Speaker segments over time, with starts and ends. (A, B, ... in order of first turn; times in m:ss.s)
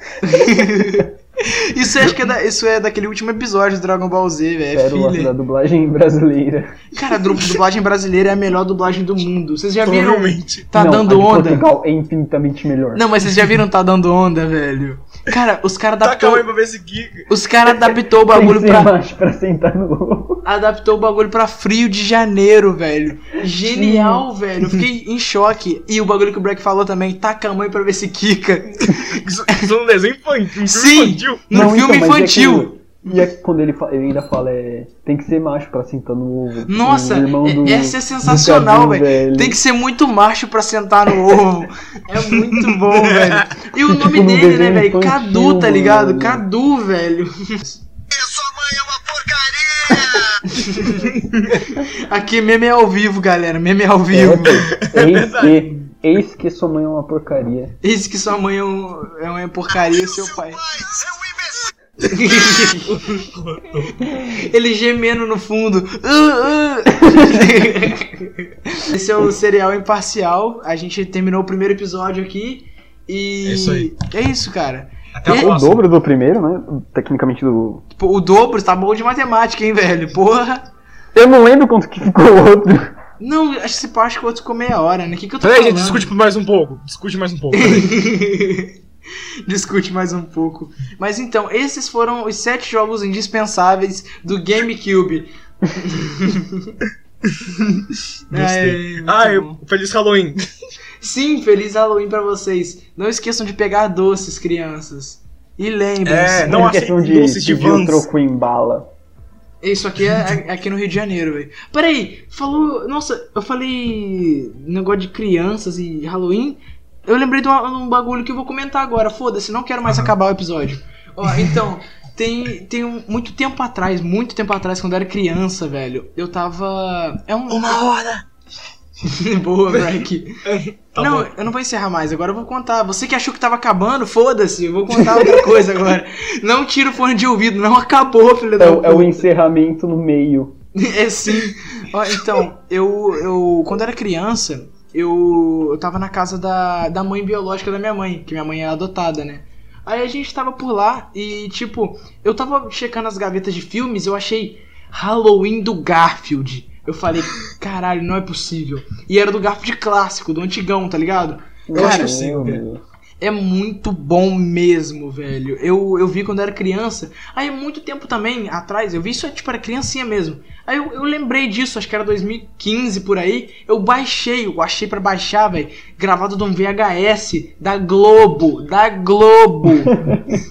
0:00.2-0:05.3 A
0:04.7-0:06.8 B
0:06.9-0:11.7 A
0:09.8-0:10.7 C
0:10.7-0:13.1 B
0:13.0-0:16.4 A
0:16.0-0:17.3 C
0:17.3-0:18.9 A
0:18.3-0:20.4 B
0:20.4-0:29.6 A
0:23.6-0:24.3 B
0:29.0-0:31.4 C
0:30.6-0:32.7 A
0:31.5-0:39.6 B
0:36.7-0:47.8 A
0:42.9-0:43.3 C
0:43.8-0:46.4 B
0:48.2-0:50.2 C
0:50.4-0:54.7 A
0:54.1-0:57.8 B
0:54.5-0:55.7 C
0:57.8-1:00.6 A
1:02.0-1:04.1 C
1:02.1-1:03.1 A
1:04.0-1:15.5 A
1:13.4-1:13.9 C
1:15.1-1:15.8 C
1:15.3-1:17.8 B
1:18.0-1:20.7 A
1:21.1-1:23.0 B
1:23.2-1:26.1 A
1:25.4-1:28.0 C
1:27.5-1:28.8 A
1:29.5-1:36.8 A
1:37.2-1:37.5 C
1:38.3-1:39.6 A
1:38.3-1:40.4 C
1:41.0-1:46.7 A
1:46.0-1:48.1 C
1:46.5-1:48.9 B
1:49.6-2:07.8 A
2:01.3-2:01.6 C
2:07.5-2:08.2 C
2:09.0-2:10.4 A
2:10.4-2:11.3 C
2:11.0-2:19.3 A
2:18.6-2:20.5 B
2:20.8-2:42.1 A
2:41.7-2:42.8 B
2:41.7-2:42.6 C
2:43.2-3:00.0 A
3:00.0-3:00.2 B